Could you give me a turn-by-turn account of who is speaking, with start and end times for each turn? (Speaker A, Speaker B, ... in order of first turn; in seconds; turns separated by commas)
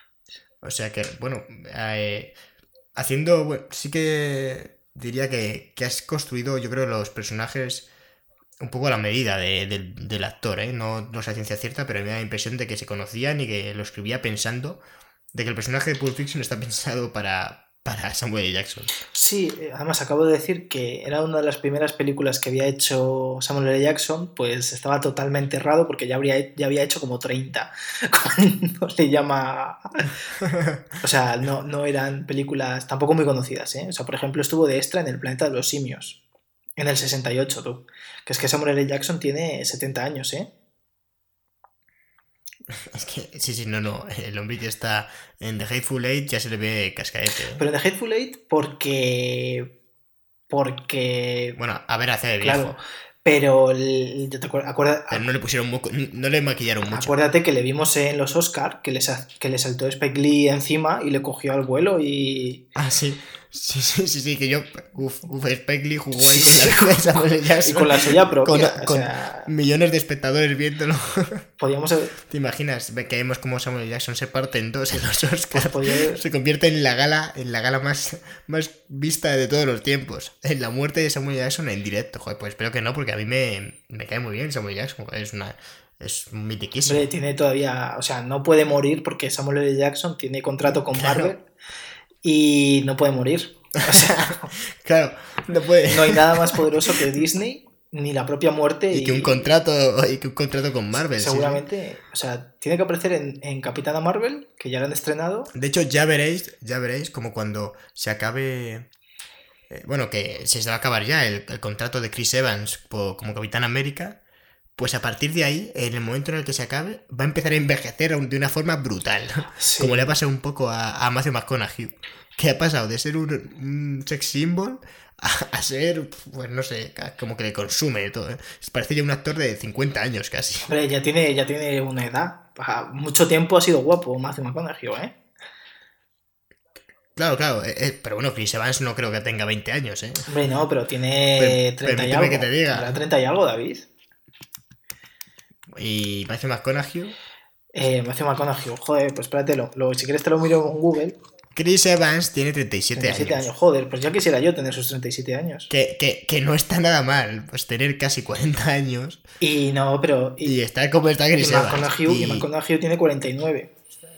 Speaker A: 0.6-2.4, Speaker A: 3.0-7.9, Speaker A: 8.6-14.8, Speaker A: 15.3-18.9, Speaker B: 19.1-30.1, Speaker A: 30.4-30.8, Speaker B: 31.0-36.2, Speaker B: 36.8-40.5, Speaker A: 42.7-47.6, Speaker B: 47.6-49.7, Speaker B: 50.5-51.6, Speaker A: 51.6-52.8, Speaker B: 52.4-55.2, Speaker A: 55.1-57.1, Speaker B: 56.9-62.6, Speaker A: 62.8-71.5, Speaker B: 66.2-69.5, Speaker B: 71.6-72.2, Speaker A: 72.3-87.1, Speaker B: 75.5-76.2, Speaker B: 86.9-91.5, Speaker A: 90.9-91.3, Speaker B: 92.2-94.5, Speaker A: 93.9-97.0, Speaker B: 95.9-99.5, Speaker A: 98.9-101.6, Speaker B: 101.1-105.5, Speaker A: 105.5-108.9, Speaker A: 109.7-114.2, Speaker A: 114.8-130.7, Speaker B: 119.6-120.1, Speaker B: 130.7-135.2, Speaker A: 137.2-140.3, Speaker B: 140.3-143.9, Speaker A: 141.4-143.0, Speaker A: 145.7-147.2, Speaker B: 147.7-151.2, Speaker A: 151.5-153.5, Speaker B: 152.9-155.7, Speaker A: 155.7-159.2, Speaker B: 159.4-160.6, Speaker A: 160.4-162.5, Speaker B: 161.4-163.7